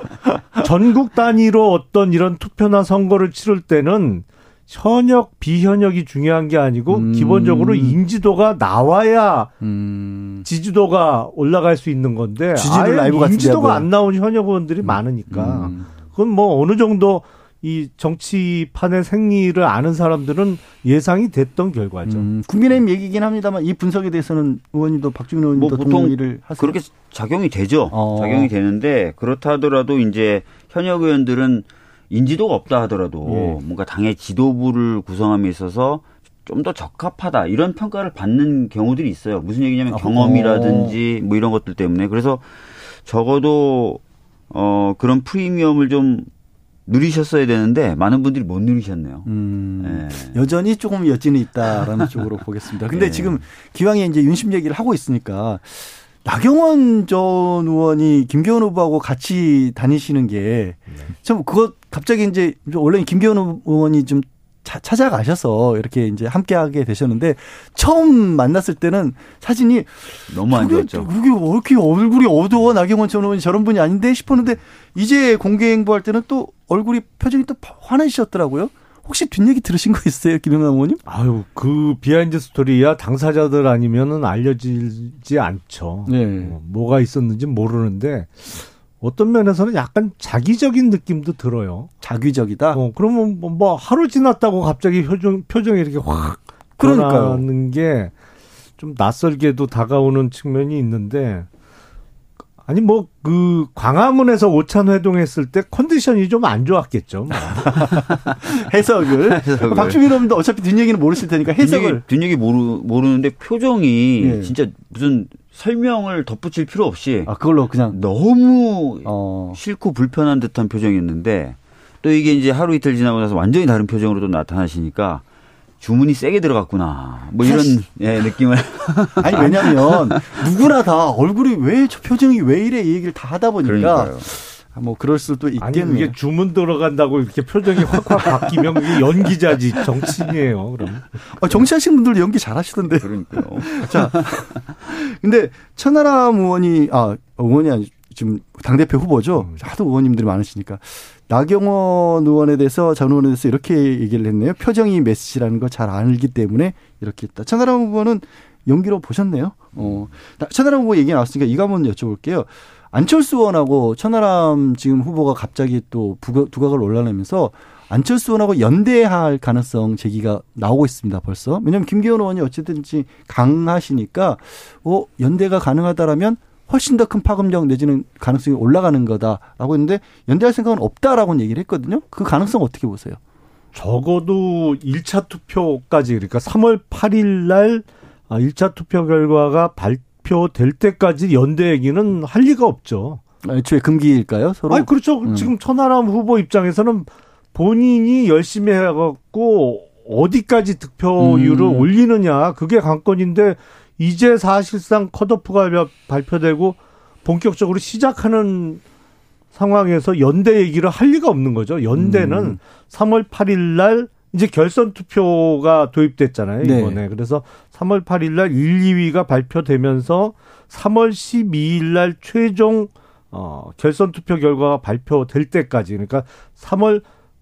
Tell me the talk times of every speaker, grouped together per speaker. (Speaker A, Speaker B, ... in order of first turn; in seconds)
Speaker A: 0.6-9.6, 10.4-22.3, 81.1-91.9, 92.7-98.1, 98.8-101.5, 102.6-107.9, 135.6-141.1, 183.7-193.2, 194.7-208.8, 209.5-227.0
Speaker B: 6.9-8.0, 9.6-10.5, 12.5-13.9, 14.8-15.9, 22.1-26.8, 27.9-28.5, 33.2-33.6, 39.9-41.0, 49.2-81.0, 86.0-86.5, 92.0-92.8, 96.8-97.4, 107.6-112.0, 114.2-114.5, 117.2-118.0, 119.0-119.6, 127.4-127.8, 129.2-136.2, 141.3-183.2, 193.4-195.5, 201.2-201.9, 211.9-212.6, 216.6-217.0
Speaker C: 25.5-46.3, 46.9-49.3, 49.8-50.4, 52.9-53.4, 70.3-71.1, 109.2-110.0, 111.6-117.3, 117.9-125.2, 125.8-130.3, 133.6-134.3, 142.9-144.4